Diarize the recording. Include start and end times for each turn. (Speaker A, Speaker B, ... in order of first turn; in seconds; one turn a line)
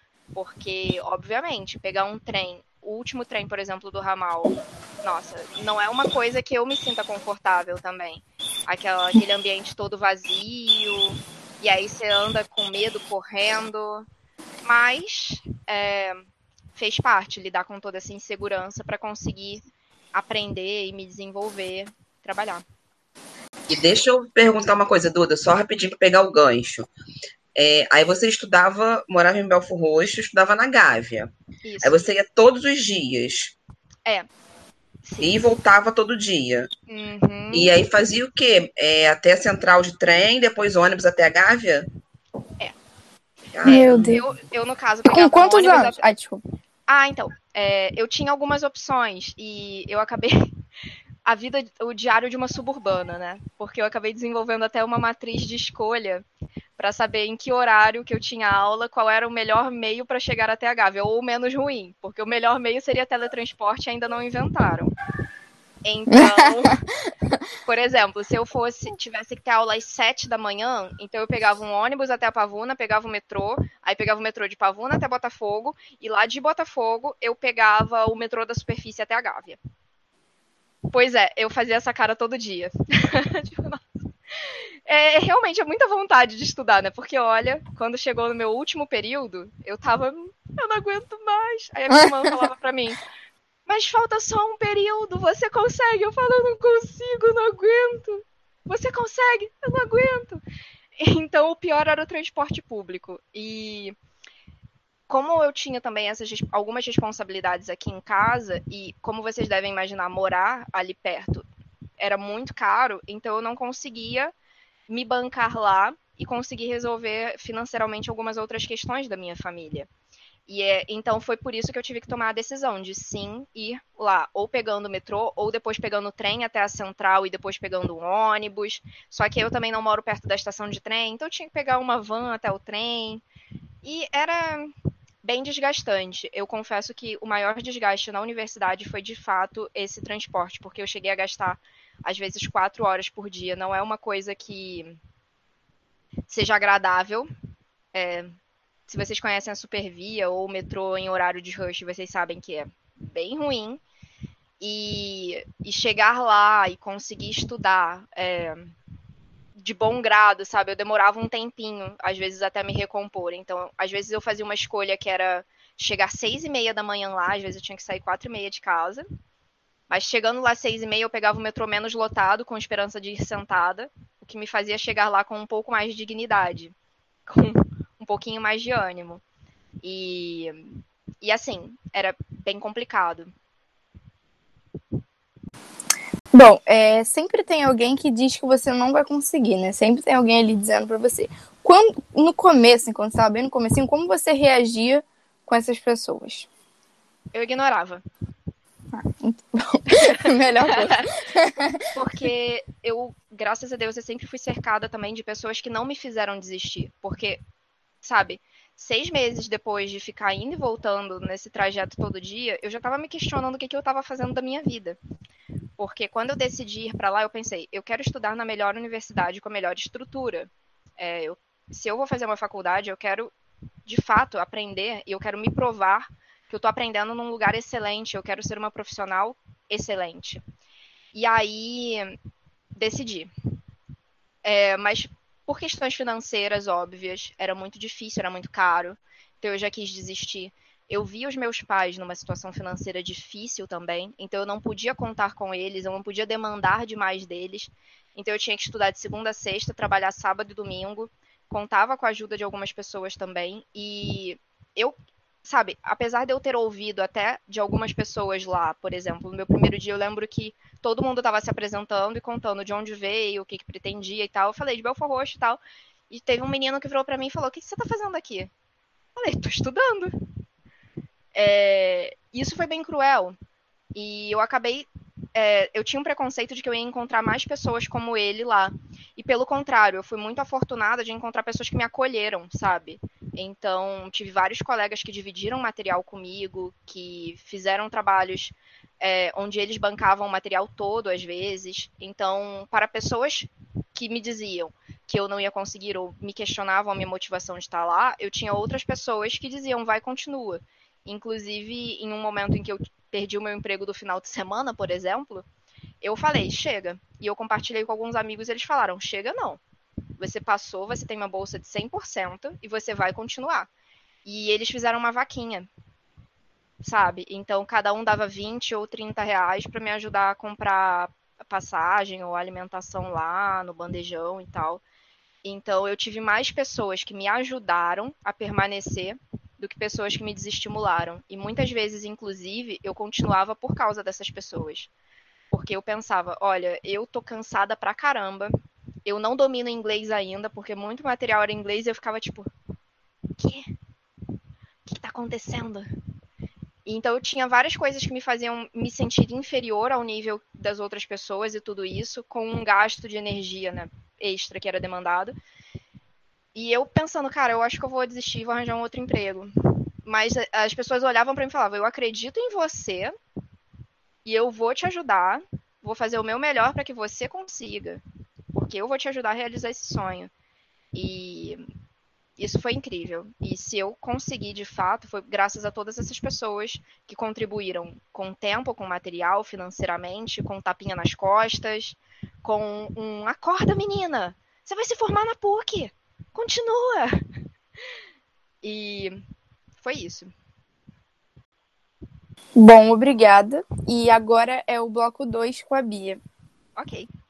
Speaker A: 0.3-14.1
Speaker A: 14.6-19.6
Speaker A: 20.1-22.6
Speaker B: 23.7-26.9
Speaker B: 27.6-31.3
Speaker A: 31.6-32.0
Speaker B: 31.8-33.6
Speaker A: 35.0-35.4
Speaker B: 35.2-36.7
Speaker A: 36.9-37.7
Speaker B: 37.5-41.9
Speaker B: 43.5-44.2
Speaker C: 43.6-44.2
Speaker A: 43.7-46.0
Speaker C: 45.1-46.4
Speaker A: 46.9-50.5
Speaker A: 51.2-56.2
Speaker A: 56.8-65.0
Speaker A: 65.8-66.8
Speaker C: 66.1-66.8
Speaker A: 67.7-79.6
Speaker A: 80.9-83.9
Speaker A: 84.4-93.0
Speaker A: 93.7-100.4
Speaker A: 101.0-104.0
Speaker A: 105.1-111.5
Speaker A: 112.0-114.3
Speaker A: 114.9-119.9
Speaker A: 120.5-133.2
Speaker A: 133.8-134.7
Speaker A: 135.2-145.0
Speaker A: 146.3-147.3
Speaker A: 147.9-148.3
Speaker A: 148.9-153.8
Speaker A: 154.6-158.7
Speaker A: 159.6-169.0
Speaker A: 169.9-176.7
Speaker A: 177.3-179.2
Speaker A: 179.8-183.3
Speaker C: 186.3-196.5
Speaker A: 197.3-198.0
Speaker C: 198.9-201.8
Speaker A: 200.0-201.1
Speaker A: 201.9-207.4
Speaker A: 208.0-215.0
Speaker A: 215.8-223.3
Speaker A: 223.9-230.4
Speaker A: 231.1-232.2
Speaker A: 232.8-233.3
Speaker A: 234.4-268.5
Speaker A: 269.2-270.2
Speaker A: 271.4-273.4
Speaker A: 273.9-305.4
Speaker A: 306.0-309.6
Speaker A: 310.2-313.7
Speaker A: 314.2-315.7
Speaker A: 316.8-324.8
Speaker A: 325.4-334.9
Speaker A: 335.5-338.5
Speaker A: 339.1-342.5
Speaker A: 343.4-343.7
Speaker A: 344.9-345.9
Speaker A: 346.9-355.4
Speaker A: 356.6-359.5
Speaker A: 360.1-363.1
Speaker A: 364.2-368.0
Speaker A: 368.5-370.3
Speaker A: 370.9-371.7
Speaker A: 372.4-387.2
Speaker A: 388.6-389.2
Speaker A: 389.8-390.3
Speaker C: 392.6-396.2
Speaker A: 396.8-397.1